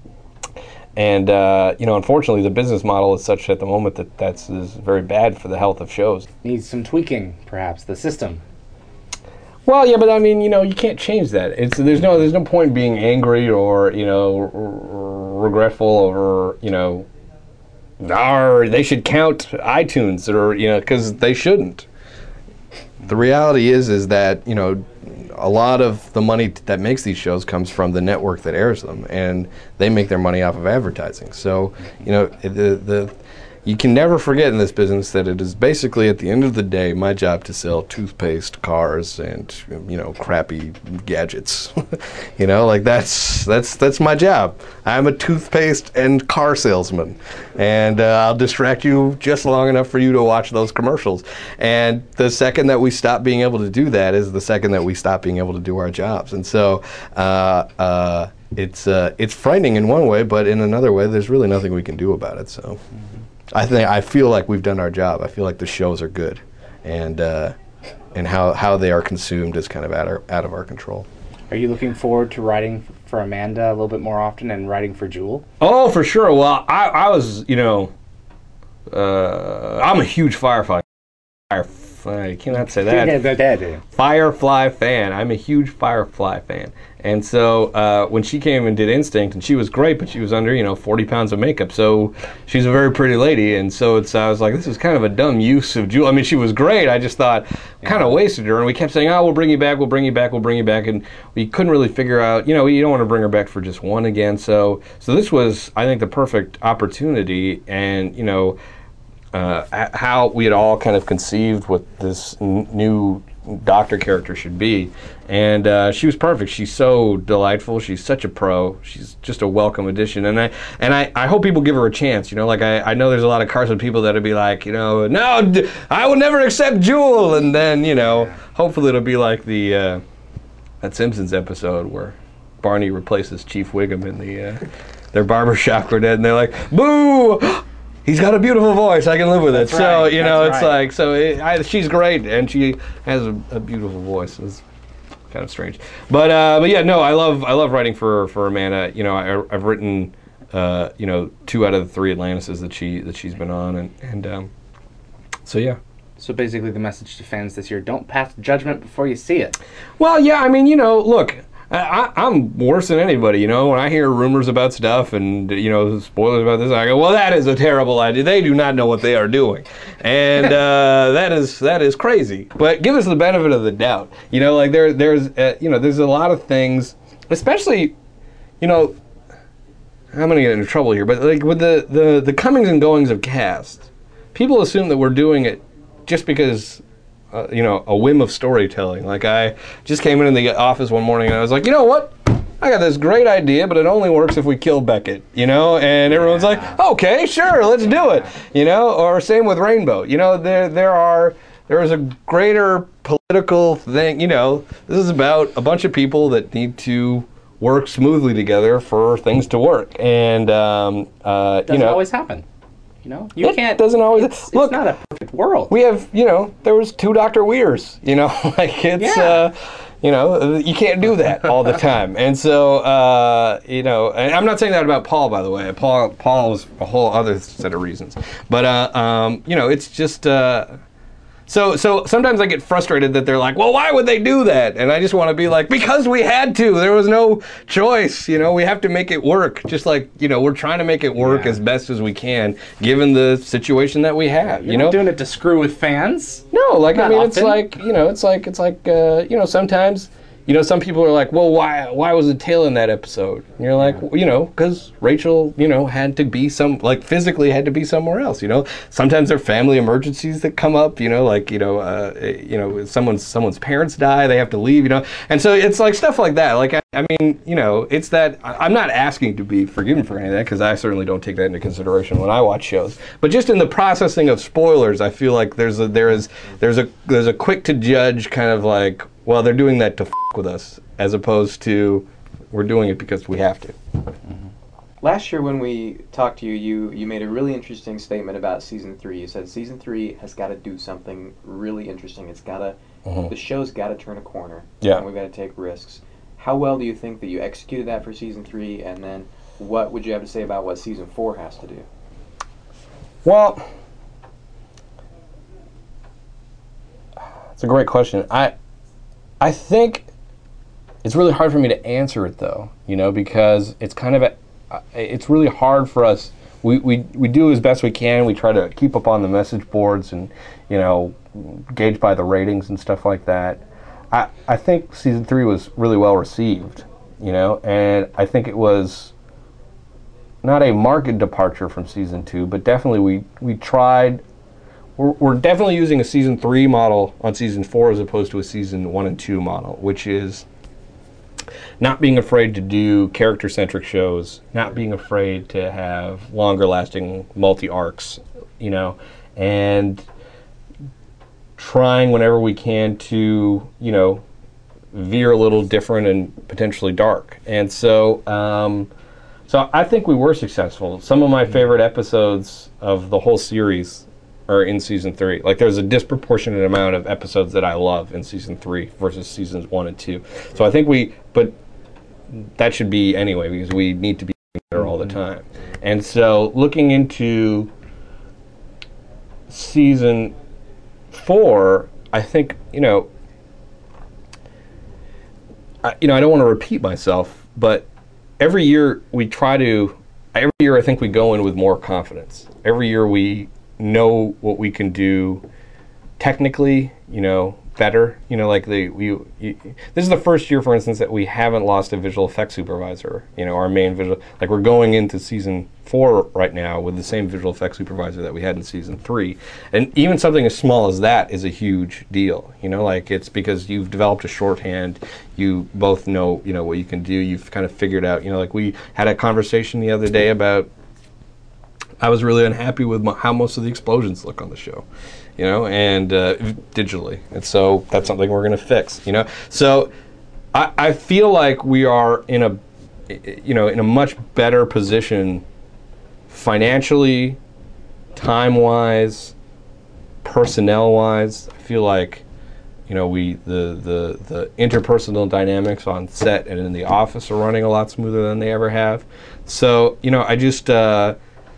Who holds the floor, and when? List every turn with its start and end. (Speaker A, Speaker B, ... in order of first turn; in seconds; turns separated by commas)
Speaker A: 1.0-6.3, Speaker B: 6.4-8.4, Speaker A: 9.7-17.1, Speaker A: 18.0-21.9, Speaker A: 23.0-62.8, Speaker A: 63.5-67.6, Speaker A: 68.1-71.1, Speaker B: 71.5-75.5, Speaker A: 75.6-77.9, Speaker A: 78.9-83.2, Speaker B: 82.6-83.8, Speaker A: 83.9-108.6, Speaker A: 109.3-130.0, Speaker A: 130.8-144.6, Speaker B: 139.5-140.8, Speaker A: 145.3-154.5, Speaker A: 155.4-155.8, Speaker B: 156.2-159.6, Speaker A: 160.0-177.9, Speaker A: 178.6-179.0, Speaker A: 180.1-212.0, Speaker B: 211.7-212.5, Speaker B: 213.0-215.7, Speaker A: 213.4-214.8, Speaker A: 215.7-230.8, Speaker B: 219.0-219.4, Speaker A: 231.5-245.1, Speaker B: 241.2-241.6, Speaker B: 244.6-247.6, Speaker A: 246.5-283.8, Speaker C: 285.0-301.9, Speaker A: 293.1-293.3, Speaker A: 303.2-303.7, Speaker A: 307.6-308.5, Speaker A: 309.4-310.1, Speaker A: 311.0-329.1, Speaker A: 330.4-334.2, Speaker A: 335.0-340.5, Speaker A: 341.8-350.1, Speaker A: 351.6-354.2, Speaker A: 354.9-358.9, Speaker A: 359.5-371.6, Speaker A: 372.3-377.7, Speaker A: 379.5-380.4, Speaker A: 381.1-383.1, Speaker A: 385.8-387.9, Speaker A: 388.4-395.4, Speaker A: 396.2-420.7, Speaker A: 422.0-429.9, Speaker A: 430.5-435.4, Speaker A: 436.3-437.4, Speaker A: 438.1-439.4, Speaker A: 440.2-442.2, Speaker A: 442.9-451.2